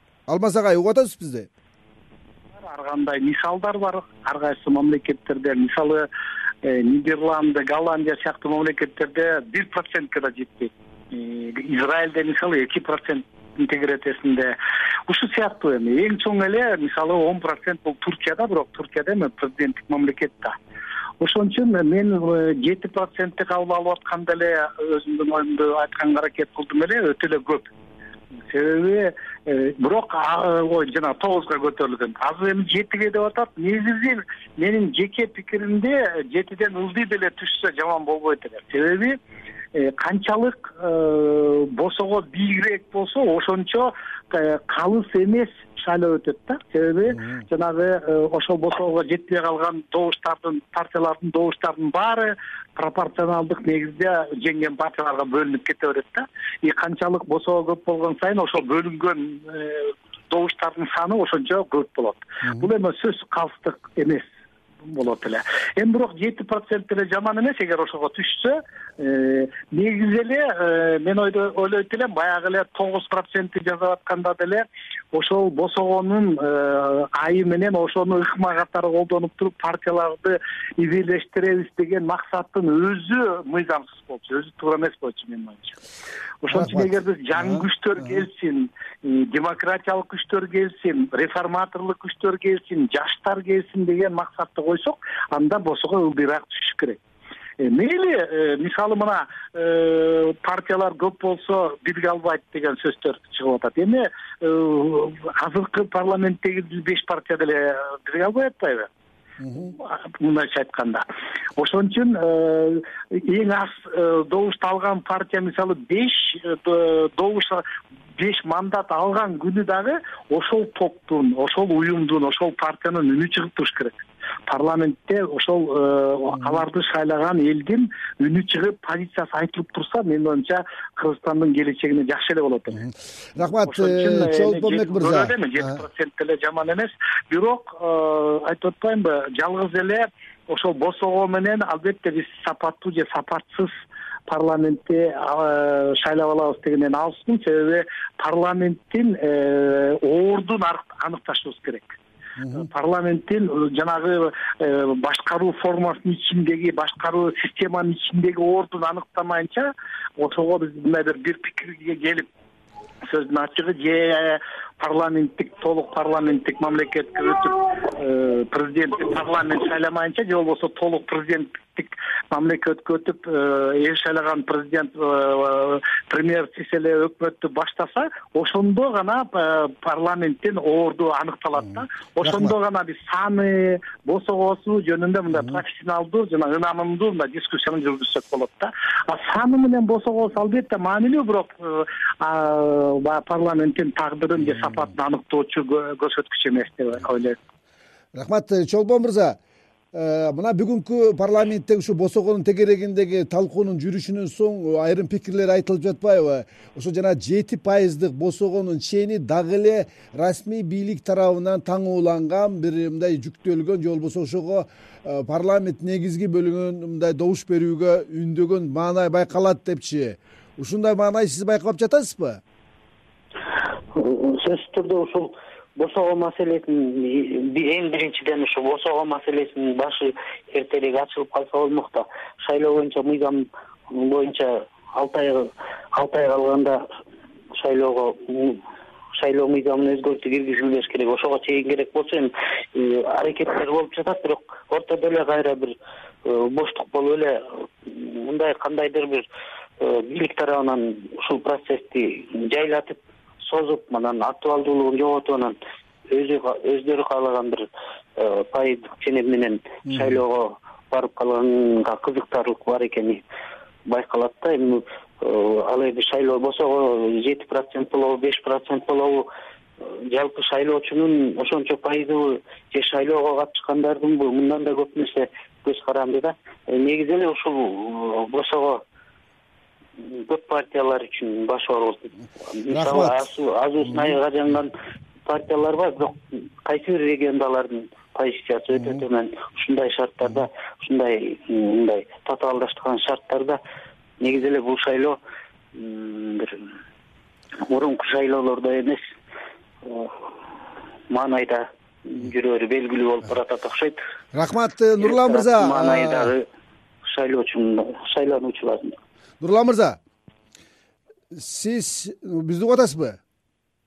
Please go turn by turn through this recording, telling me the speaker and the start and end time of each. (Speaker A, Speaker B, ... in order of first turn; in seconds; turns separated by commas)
Speaker A: 0.3-1.5, Speaker B: 2.5-6.1, Speaker B: 6.6-14.6, Speaker B: 15.1-20.6, Speaker B: 21.2-27.7, Speaker B: 28.5-39.2, Speaker B: 39.7-64.3, Speaker B: 64.9-85.8, Speaker B: 86.4-97.0, Speaker A: 86.5-88.1, Speaker B: 97.6-108.9, Speaker B: 109.5-111.0, Speaker B: 111.6-117.6, Speaker B: 118.2-132.8, Speaker A: 132.8-135.4, Speaker B: 133.6-143.7, Speaker B: 144.3-152.0, Speaker A: 152.4-152.7, Speaker B: 152.5-162.3, Speaker B: 163.1-197.4, Speaker A: 182.2-182.5, Speaker A: 198.1-199.4, Speaker A: 199.9-222.4, Speaker C: 223.9-236.8, Speaker C: 237.6-238.6, Speaker C: 239.2-249.2, Speaker C: 249.8-255.6, Speaker C: 256.1-263.2, Speaker C: 263.9-269.2, Speaker C: 269.8-278.8, Speaker C: 280.0-284.7, Speaker A: 282.7-283.1, Speaker C: 285.2-293.6, Speaker C: 294.2-295.2, Speaker C: 295.7-296.7, Speaker C: 297.7-299.0, Speaker C: 299.8-300.1, Speaker C: 301.1-304.0, Speaker A: 304.3-306.3, Speaker C: 305.0-306.4, Speaker C: 307.1-309.0, Speaker A: 309.4-310.0, Speaker A: 311.3-313.2